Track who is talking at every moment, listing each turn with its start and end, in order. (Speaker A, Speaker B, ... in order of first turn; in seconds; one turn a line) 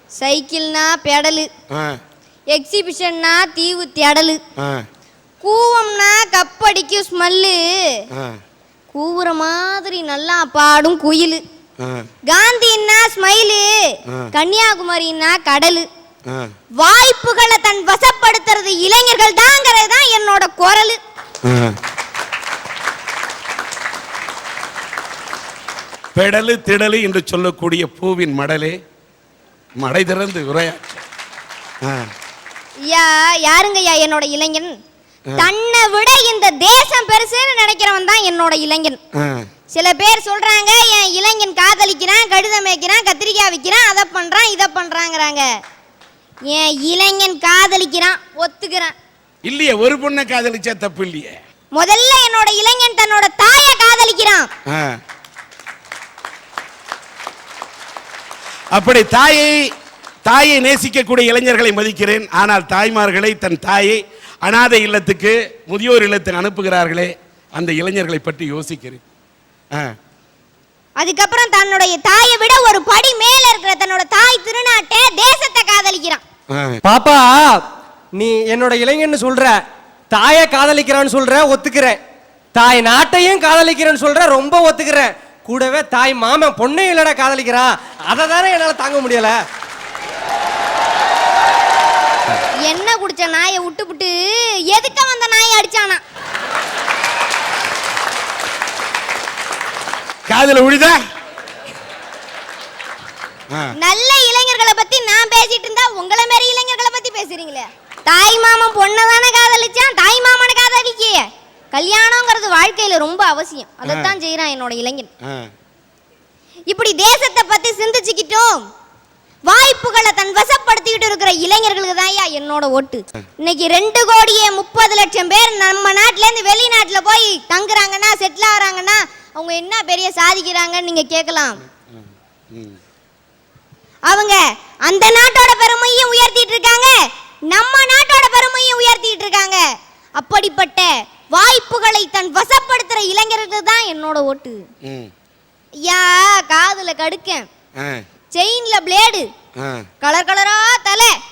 Speaker A: 0.1-1.5
Speaker B: 1.7-2.0
Speaker A: 2.5-4.4
Speaker B: 4.6-4.8
Speaker A: 5.4-8.0
Speaker A: 8.9-11.4
Speaker B: 11.8-12.1
Speaker A: 12.3-15.9
Speaker A: 16.8-21.0
Speaker B: 21.4-21.7
Speaker B: 26.1-28.8
Speaker B: 29.8-31.0
Speaker B: 31.8-32.1
Speaker A: 32.9-34.7
Speaker A: 35.4-39.0
Speaker B: 39.1-39.5
Speaker A: 39.7-45.5
Speaker A: 46.5-48.9
Speaker B: 49.5-51.4
Speaker A: 51.7-54.5
Speaker B: 54.7-54.9
Speaker B: 58.7-59.6
Speaker B: 60.2-69.0
Speaker A: 71.0-76.2
Speaker B: 76.5-76.8
Speaker C: 76.9-77.5
Speaker C: 78.2-79.6
Speaker C: 80.2-82.0
Speaker C: 82.6-89.3
Speaker A: 92.6-96.0
Speaker B: 100.3-101.0
Speaker A: 103.8-115.1
Speaker B: 113.9-114.2
Speaker B: 115.2-115.5
Speaker A: 116.7-118.6
Speaker A: 119.5-131.6
Speaker B: 132.5-132.8
Speaker A: 134.1-139.6
Speaker A: 140.2-144.6
Speaker B: 144.8-145.1
Speaker A: 145.8-147.4
Speaker B: 147.8-148.0
Speaker A: 148.3-149.3
Speaker B: 149.6-149.8
Speaker A: 150.0-151.2